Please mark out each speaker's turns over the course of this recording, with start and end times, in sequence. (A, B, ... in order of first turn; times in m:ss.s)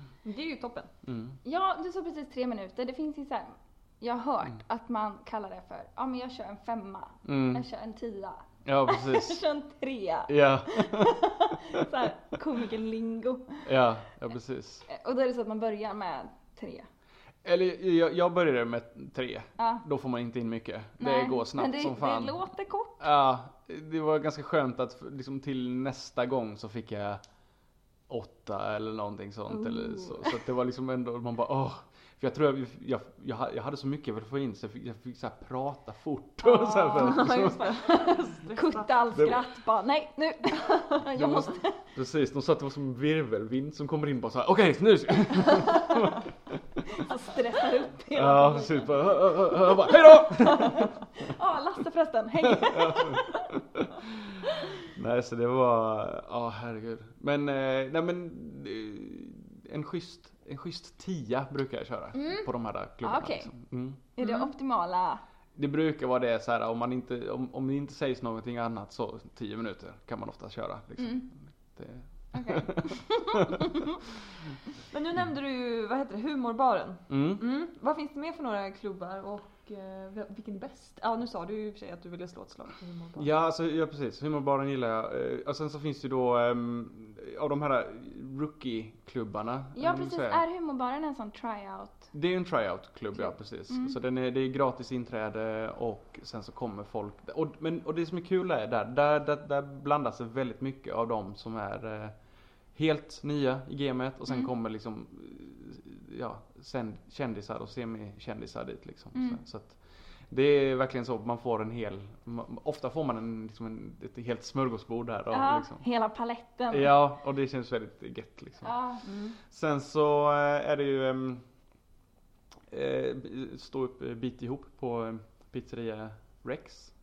0:00.2-0:00.9 A
0:01.0-0:01.4 B
0:01.4-0:13.7 C
0:07.2-0:07.6 B
0:08.6-0:09.4 B
0:10.3-0:11.8 B
0:13.6-0:14.8 B
0:14.9-0:16.9 C
0:17.4-0:22.4 B
0:19.6-0:19.8 C
0:21.0-0:23.0 C
0:23.0-0:27.2 B
0:28.1-0:37.7 B
0:29.5-0:30.3 C
0:36.4-0:41.8 C
0:36.9-0:39.0 A
0:39.1-0:39.4 B
0:41.1-0:46.8 B
0:46.9-0:49.0 C
0:48.1-0:50.9 B
0:50.2-0:53.5 C
0:52.4-1:04.0 B
1:02.2-1:02.5 C
1:03.0-1:03.5 C
1:04.2-1:05.2 C
1:04.2-1:04.5 A
1:05.5-1:13.7 B
1:11.0-1:11.2 C
1:12.3-1:13.9 C
1:14.9-1:23.3 A
1:17.1-1:17.4 B
1:23.2-1:30.4 B
1:29.8-1:32.1 C
1:32.1-1:42.1 B
1:42.7-1:55.8 B
1:49.1-1:49.4 C
1:55.3-1:56.9 C
1:56.7-1:58.7 B
1:58.6-1:59.0 C
1:59.0-1:59.4 A
1:59.4-2:01.4 B
2:02.7-2:06.9 B